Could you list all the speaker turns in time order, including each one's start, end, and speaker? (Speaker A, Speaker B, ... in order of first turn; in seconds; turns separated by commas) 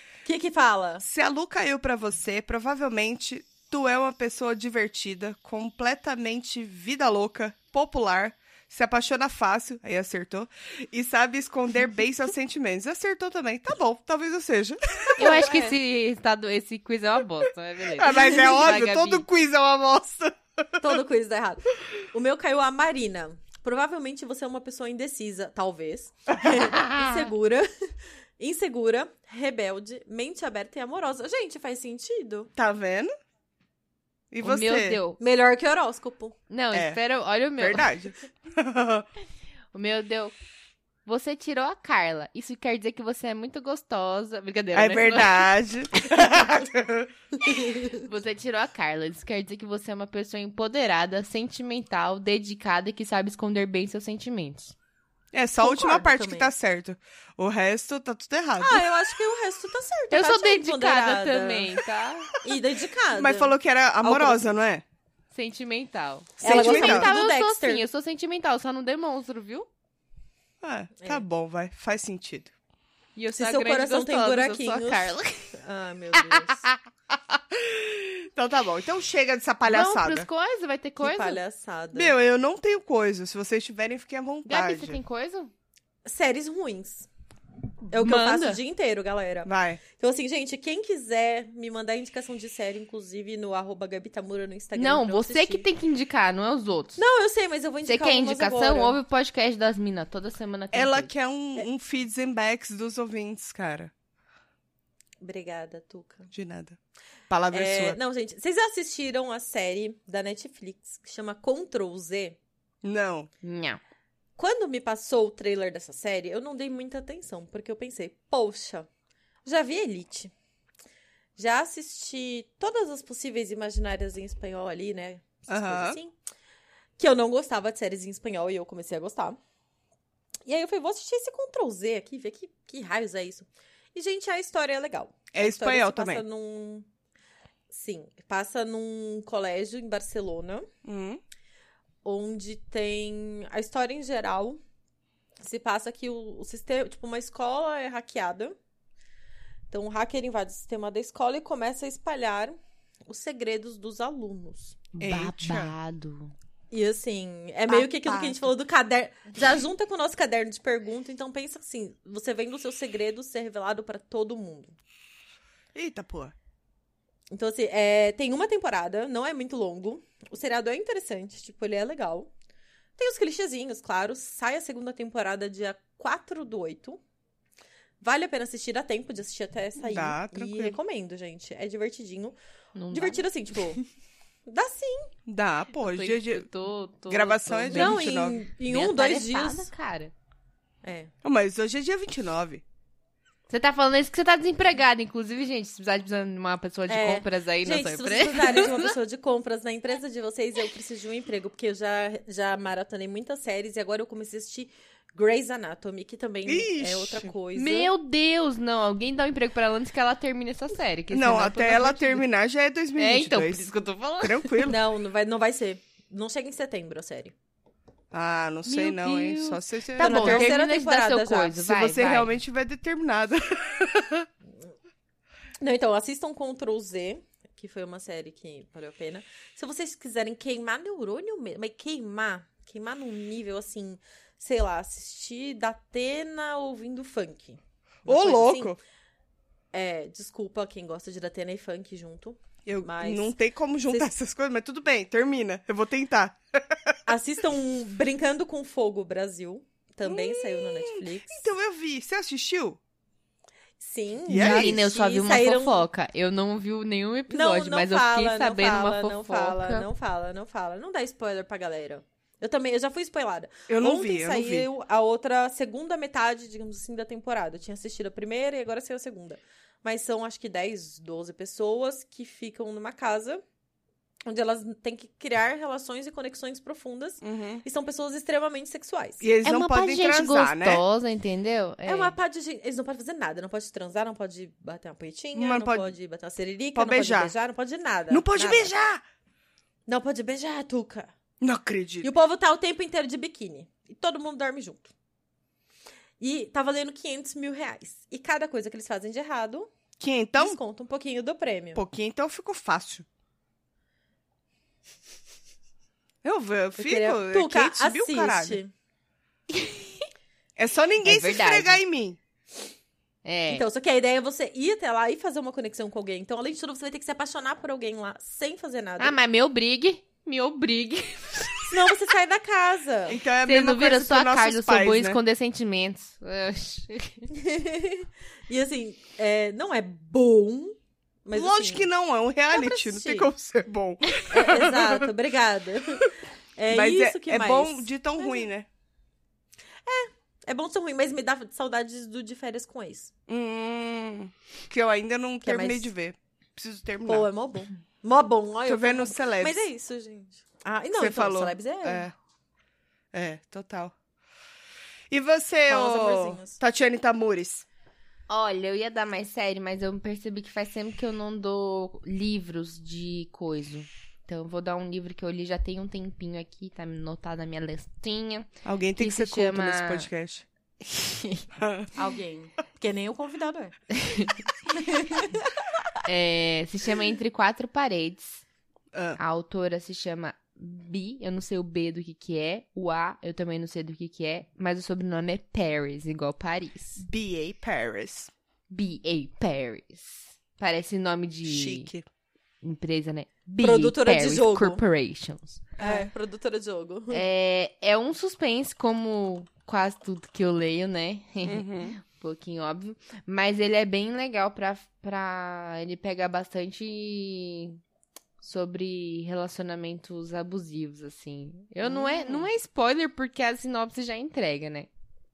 Speaker A: 0.2-1.0, Speaker B: 1.0-15.4, Speaker A: 15.2-15.8, Speaker C: 15.2-19.3, Speaker B: 17.9-20.8, Speaker A: 20.8-32.5, Speaker B: 32.6-33.1, Speaker B: 34.3-35.0, Speaker C: 34.4-35.2, Speaker A: 35.2-36.4, Speaker C: 36.5-37.9, Speaker B: 36.7-37.0, Speaker B: 37.6-39.1, Speaker C: 39.7-40.3, Speaker C: 41.1-45.5, Speaker B: 44.7-47.1, Speaker C: 46.0-46.3, Speaker A: 47.4-48.1, Speaker C: 47.9-54.7, Speaker B: 55.3-58.8, Speaker A: 55.6-56.5, Speaker A: 58.6-61.7, Speaker C: 60.1-62.3, Speaker A: 62.4-64.6, Speaker B: 63.1-64.8, Speaker C: 65.3-69.7, Speaker B: 66.4-67.1, Speaker A: 66.4-67.8, Speaker B: 70.6-72.5, Speaker A: 71.0-71.2, Speaker C: 73.2-75.6, Speaker A: 73.3-76.7, Speaker C: 76.2-76.8, Speaker B: 77.5-80.3, Speaker C: 79.7-81.4, Speaker A: 81.0-82.2, Speaker B: 81.9-85.0, Speaker C: 84.5-85.5, Speaker A: 86.0-87.1, Speaker A: 87.9-95.7, Speaker C: 87.9-88.6, Speaker B: 89.5-89.8, Speaker C: 94.8-97.0, Speaker A: 97.0-99.0, Speaker C: 97.9-101.1, Speaker B: 100.7-103.9, Speaker A: 105.2-106.3, Speaker B: 106.3-106.8, Speaker B: 107.3-108.0, Speaker A: 107.5-112.4, Speaker B: 112.8-113.3, Speaker C: 113.4-113.8, Speaker A: 114.4-118.9, Speaker A: 119.5-120.3, Speaker A: 121.4-126.2, Speaker B: 125.5-126.0, Speaker A: 127.0-129.4, Speaker A: 130.5-136.9, Speaker B: 135.3-136.2, Speaker A: 137.7-140.7, Speaker B: 140.8-141.2, Speaker A: 142.0-144.6, Speaker A: 145.4-148.6, Speaker A: 149.7-154.8, Speaker C: 154.9-156.3, Speaker B: 155.0-155.7, Speaker A: 156.7-164.8, Speaker B: 157.8-158.4, Speaker B: 165.7-166.3, Speaker A: 167.3-172.3, Speaker A: 173.0-177.0, Speaker A: 178.0-182.4, Speaker B: 179.8-180.8, Speaker C: 182.8-183.3, Speaker A: 182.9-183.8, Speaker A: 184.5-185.1, Speaker B: 185.3-186.5, Speaker C: 185.8-190.1, Speaker B: 187.1-188.4, Speaker A: 187.7-189.7, Speaker A: 190.8-191.1, Speaker B: 191.2-192.6, Speaker C: 193.5-198.9, Speaker A: 196.9-207.9, Speaker B: 206.5-207.3, Speaker C: 207.5-212.2, Speaker B: 211.1-214.8, Speaker C: 213.0-214.7, Speaker A: 214.6-217.3, Speaker B: 218.1-220.6, Speaker C: 218.7-222.3, Speaker A: 220.0-221.6, Speaker B: 221.6-224.3, Speaker A: 225.6-238.8, Speaker B: 238.1-238.8, Speaker A: 239.7-243.3, Speaker B: 242.7-247.0, Speaker A: 247.1-251.5, Speaker B: 250.1-252.8, Speaker A: 253.8-255.9, Speaker B: 254.3-254.8, Speaker C: 254.3-259.9, Speaker A: 257.3-273.4, Speaker B: 263.7-264.7, Speaker A: 274.3-279.3, Speaker B: 277.2-277.6, Speaker B: 279.2-280.8, Speaker C: 279.4-282.1, Speaker A: 281.9-288.7, Speaker B: 285.4-285.9, Speaker B: 286.8-287.3, Speaker B: 288.1-289.0, Speaker A: 289.9-291.1, Speaker B: 291.4-292.1, Speaker A: 292.0-294.9, Speaker A: 296.2-299.7, Speaker B: 300.0-300.6, Speaker A: 300.4-301.8, Speaker B: 301.7-303.1, Speaker B: 306.2-308.6, Speaker A: 306.8-308.7, Speaker B: 310.6-312.2, Speaker C: 311.0-311.8, Speaker C: 313.2-313.6, Speaker A: 313.5-319.2, Speaker C: 319.0-321.8, Speaker A: 321.7-323.2, Speaker B: 323.1-325.2, Speaker C: 323.4-327.3, Speaker A: 327.3-331.9, Speaker B: 331.3-335.1, Speaker A: 332.5-333.3, Speaker A: 334.3-338.5, Speaker B: 336.7-338.7, Speaker A: 339.9-343.1, Speaker B: 343.3-347.3, Speaker A: 345.4-345.9, Speaker A: 347.1-352.1, Speaker B: 348.7-349.6, Speaker B: 351.0-352.1, Speaker B: 353.1-353.9, Speaker B: 355.1-357.7, Speaker A: 355.7-356.6, Speaker C: 358.3-370.1, Speaker B: 368.6-370.5, Speaker C: 370.9-371.4, Speaker B: 371.6-371.9, Speaker A: 371.9-373.8, Speaker C: 374.0-374.3, Speaker A: 374.7-375.4, Speaker C: 376.0-378.4, Speaker B: 378.9-379.2, Speaker C: 379.2-387.0, Speaker B: 387.0-388.3, Speaker C: 388.7-391.9, Speaker B: 391.4-392.1, Speaker C: 392.6-395.9, Speaker A: 393.6-394.8, Speaker A: 395.8-397.2, Speaker C: 397.1-407.8, Speaker B: 401.4-402.0, Speaker C: 408.4-414.9, Speaker B: 411.8-412.5